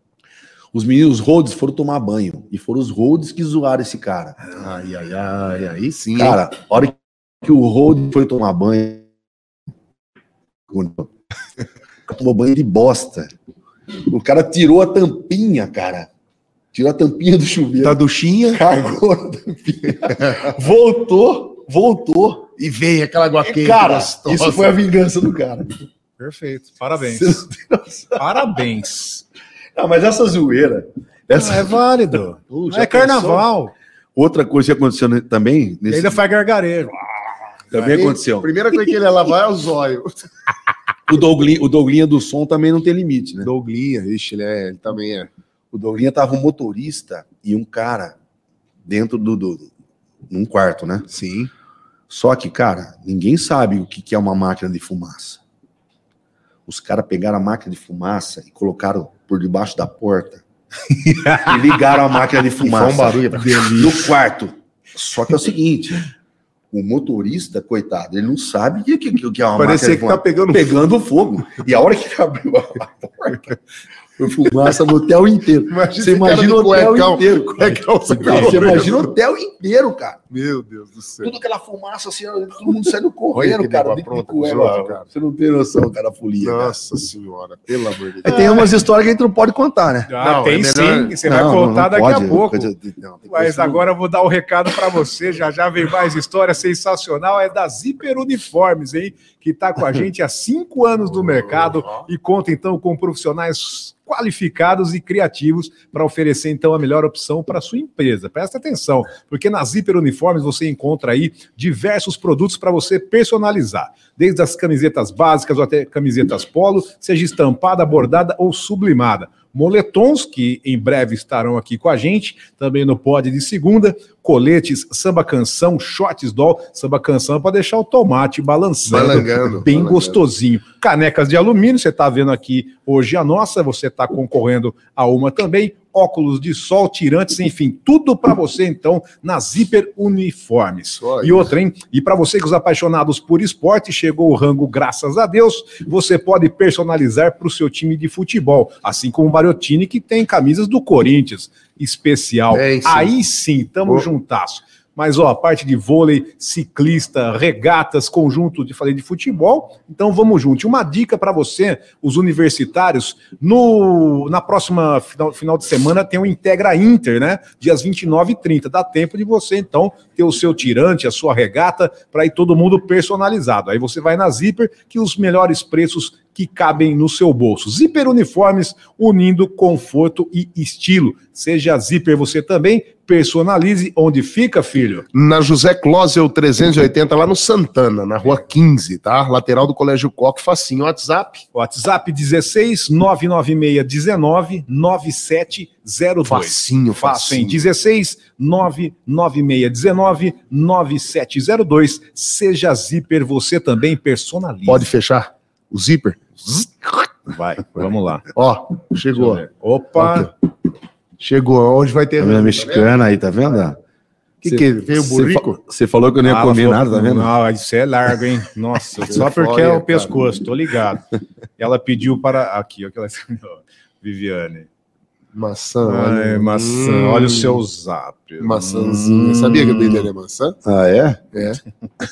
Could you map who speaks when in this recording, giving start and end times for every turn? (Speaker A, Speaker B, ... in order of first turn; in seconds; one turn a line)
Speaker A: 0.7-4.4
Speaker B: 4.5-6.4
Speaker A: 6.1-9.0
Speaker A: 10.7-11.1
Speaker A: 12.1-13.3
Speaker A: 14.1-16.1
Speaker A: 16.7-18.0
Speaker B: 17.8-18.6
Speaker A: 18.5-22.5
Speaker B: 22.6-24.7
Speaker A: 23.4-25.8
Speaker C: 26.2-27.4
Speaker A: 27.0-28.6
Speaker C: 28.2-29.2
Speaker A: 29.7-31.8
Speaker C: 31.3-33.7
Speaker A: 32.5-33.5
Speaker A: 34.1-36.2
Speaker C: 35.9-37.0
Speaker A: 37.7-38.5
Speaker B: 37.8-40.1
Speaker A: 41.1-43.5
Speaker B: 43.4-45.3
Speaker A: 45.7-48.1
Speaker A: 48.8-49.7
Speaker A: 50.3-51.1
Speaker B: 51.1-51.5
Speaker A: 52.1-55.4
Speaker A: 56.7-60.4
Speaker A: 61.4-66.1
Speaker B: 62.6-63.8
Speaker C: 63.4-63.9
Speaker A: 66.7-73.5
Speaker B: 69.6-70.7
Speaker A: 74.2-80.2
Speaker B: 75.7-79.1
Speaker C: 78.2-78.7
Speaker B: 80.3-81.3
Speaker A: 81.2-86.8
Speaker B: 83.3-85.0
Speaker B: 86.4-88.7
Speaker A: 88.2-90.1
Speaker C: 88.3-88.6
Speaker C: 90.1-92.7
Speaker B: 90.2-91.2
Speaker A: 91.2-93.8
Speaker C: 93.3-185.0
Speaker B: 101.3-102.0
Speaker B: 128.9-130.2
Speaker B: 141.0-141.5
Speaker B: 152.5-153.1
Speaker B: 185.1-191.4
Speaker C: 191.5-204.9
Speaker B: 196.2-197.6
Speaker B: 204.7-207.1
Speaker C: 207.3-208.3
Speaker B: 208.3-209.4
Speaker C: 209.1-210.3
Speaker B: 210.0-210.3
Speaker B: 211.2-212.9
Speaker A: 212.2-213.8
Speaker B: 214.4-215.6
Speaker A: 214.4-217.3
Speaker C: 216.2-221.1
Speaker B: 219.0-220.4
Speaker C: 221.6-224.7
Speaker B: 225.3-227.6
Speaker C: 225.8-230.0
Speaker B: 228.4-230.6
Speaker A: 230.6-231.2
Speaker B: 231.3-231.6